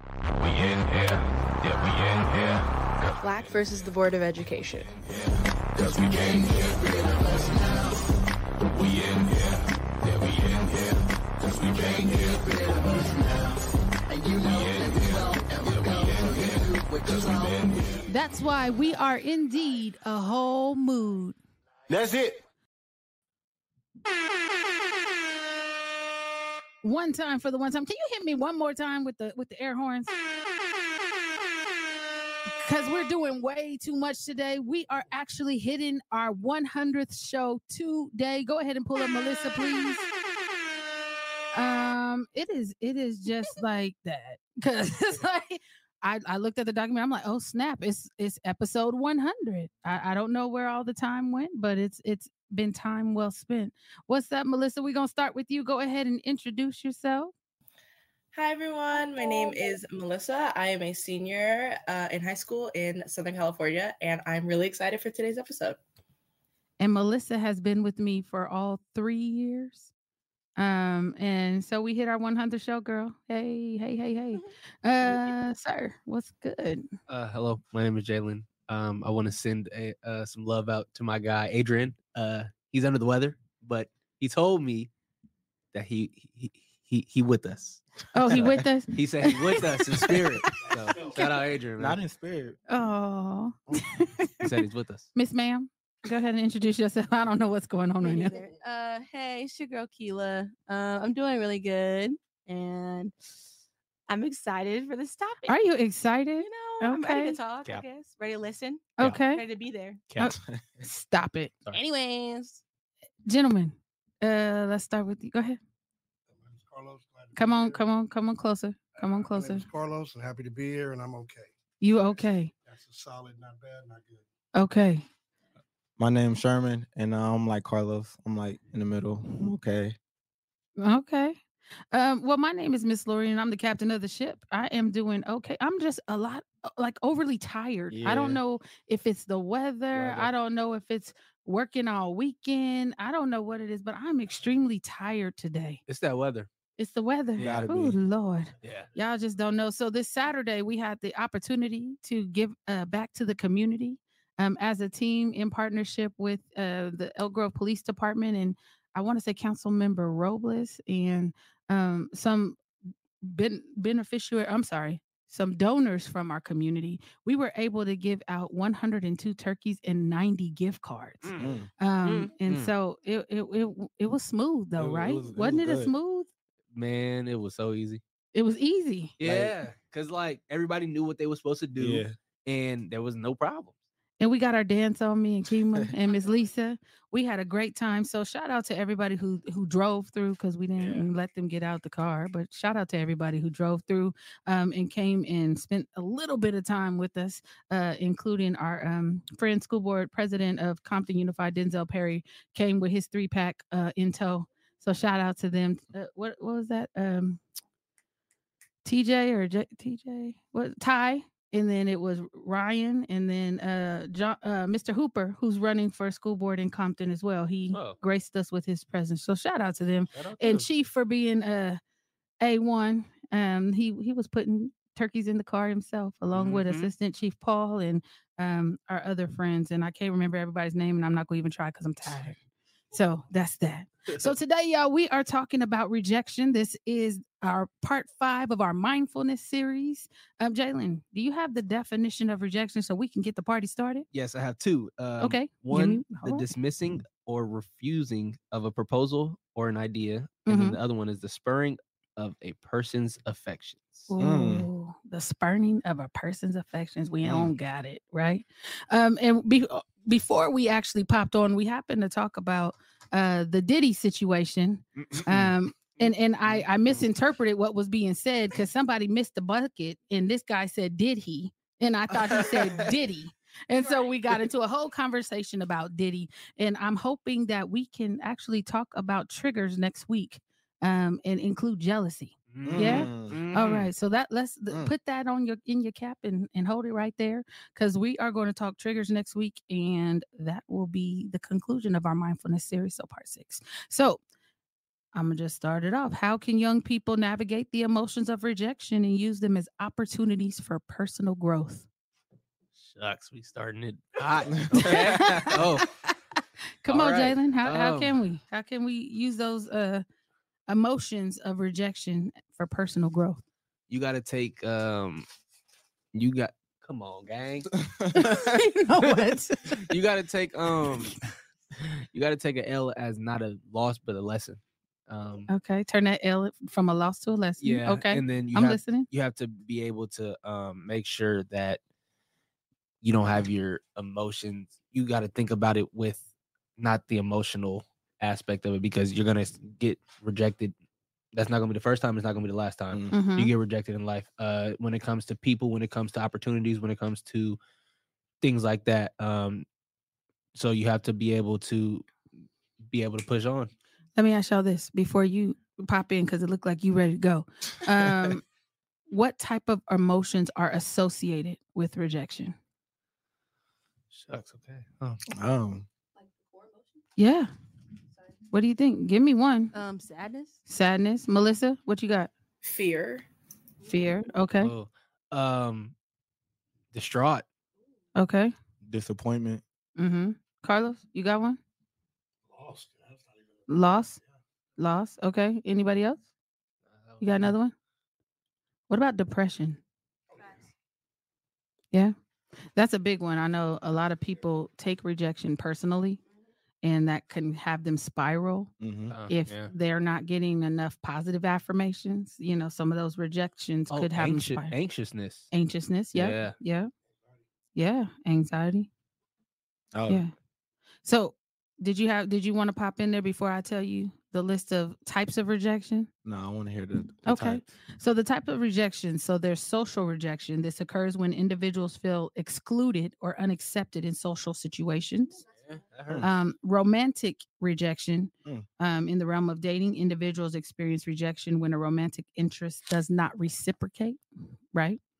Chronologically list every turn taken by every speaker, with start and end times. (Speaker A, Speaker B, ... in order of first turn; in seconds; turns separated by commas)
Speaker A: 0.4-2.6, Speaker B: 3.2-4.8, Speaker C: 3.6-4.8, Speaker B: 6.2-7.8, Speaker B: 12.8-13.1, Speaker B: 14.3-16.5, Speaker D: 18.1-21.4, Speaker D: 26.8-30.1, Speaker D: 32.6-40.1, Speaker D: 41.5-57.3, Speaker C: 58.3-65.8, Speaker D: 66.8-69.9, Speaker D: 70.6-76.9, Speaker A: 77.1-84.9, Speaker A: 85.7-92.0, Speaker D: 88.1-89.6, Speaker E: 88.3-88.6, Speaker F: 90.6-91.4, Speaker E: 91.8-92.6, Speaker D: 92.7-94.5, Speaker A: 94.4-95.1, Speaker D: 95.1-98.3, Speaker G: 98.0-103.1, Speaker F: 98.2-98.5, Speaker G: 104.1-105.6, Speaker D: 105.5-107.4, Speaker G: 106.4-110.0, Speaker D: 109.0-109.4, Speaker D: 110.2-111.5, Speaker E: 110.2-110.6, Speaker G: 111.7-112.6, Speaker D: 113.2-115.6, Speaker F: 116.3-117.9, Speaker D: 117.3-119.6, Speaker F: 118.9-121.5, Speaker D: 121.8-122.5, Speaker F: 122.1-124.2, Speaker D: 124.5-125.0, Speaker E: 126.0-129.9, Speaker D: 130.8-131.4, Speaker D: 131.9-145.8, Speaker E: 137.9-138.4, Speaker A: 139.9-140.3, Speaker A: 145.9-146.5, Speaker D: 146.8-162.6, Speaker A: 147.3-147.7, Speaker E: 147.4-148.0, Speaker A: 148.6-148.9, Speaker D: 163.2-176.3, Speaker A: 171.2-172.7, Speaker E: 171.4-171.7, Speaker E: 174.8-175.9, Speaker A: 176.7-178.0, Speaker D: 178.3-179.1, Speaker A: 179.2-183.8, Speaker E: 179.2-179.6, Speaker E: 181.8-182.1, Speaker D: 184.2-207.4, Speaker D: 208.8-221.8, Speaker A: 220.1-220.6, Speaker D: 222.4-232.4, Speaker A: 226.3-226.9, Speaker D: 232.9-244.1, Speaker A: 244.1-254.1, Speaker D: 245.2-246.5, Speaker D: 250.4-250.8, Speaker D: 254.1-294.2, Speaker E: 254.2-254.7, Speaker E: 257.2-257.5, Speaker A: 265.0-265.3, Speaker E: 265.1-265.5, Speaker A: 265.9-266.6, Speaker E: 272.1-272.9, Speaker F: 273.8-274.0, Speaker A: 282.5-283.9, Speaker E: 282.6-283.4, Speaker D: 295.1-301.9, Speaker A: 302.8-305.9, Speaker E: 304.5-305.6, Speaker D: 304.8-305.8, Speaker D: 306.8-310.0, Speaker A: 306.9-308.1, Speaker D: 310.7-313.4, Speaker A: 313.9-315.2, Speaker A: 316.1-317.7, Speaker E: 317.8-318.6, Speaker D: 318.2-319.8, Speaker A: 319.8-321.2, Speaker A: 321.8-325.5, Speaker D: 325.5-329.1, Speaker A: 327.6-331.8, Speaker A: 333.0-336.2, Speaker A: 336.8-340.7, Speaker A: 341.3-347.6, Speaker D: 343.1-343.5, Speaker A: 348.4-349.6, Speaker A: 350.5-352.1, Speaker A: 352.9-353.7, Speaker D: 354.1-358.4, Speaker E: 358.0-358.3, Speaker D: 359.1-362.6, Speaker A: 364.1-365.2, Speaker E: 365.3-365.9, Speaker G: 366.2-366.9, Speaker D: 367.2-367.5, Speaker D: 368.5-369.7, Speaker G: 369.7-370.6, Speaker D: 370.7-372.3, Speaker C: 372.6-373.2, Speaker D: 373.9-374.7, Speaker A: 374.6-375.9, Speaker A: 376.9-377.4, Speaker D: 378.1-378.5, Speaker E: 378.8-379.6, Speaker D: 380.0-381.6, Speaker F: 382.5-383.6, Speaker D: 383.7-384.2, Speaker D: 384.8-386.2, Speaker A: 386.9-387.5, Speaker D: 387.2-387.7, Speaker D: 388.9-389.8, Speaker F: 390.3-390.6, Speaker D: 392.7-396.2, Speaker D: 396.8-398.7, Speaker E: 398.8-399.1, Speaker A: 399.1-399.7, Speaker D: 399.3-404.7, Speaker A: 403.9-405.5, Speaker D: 405.5-406.9, Speaker A: 406.1-406.5, Speaker D: 407.7-408.9, Speaker E: 409.9-410.2, Speaker D: 411.0-416.1, Speaker E: 416.2-417.6, Speaker D: 417.2-425.4, Speaker A: 425.6-426.3, Speaker D: 426.2-435.0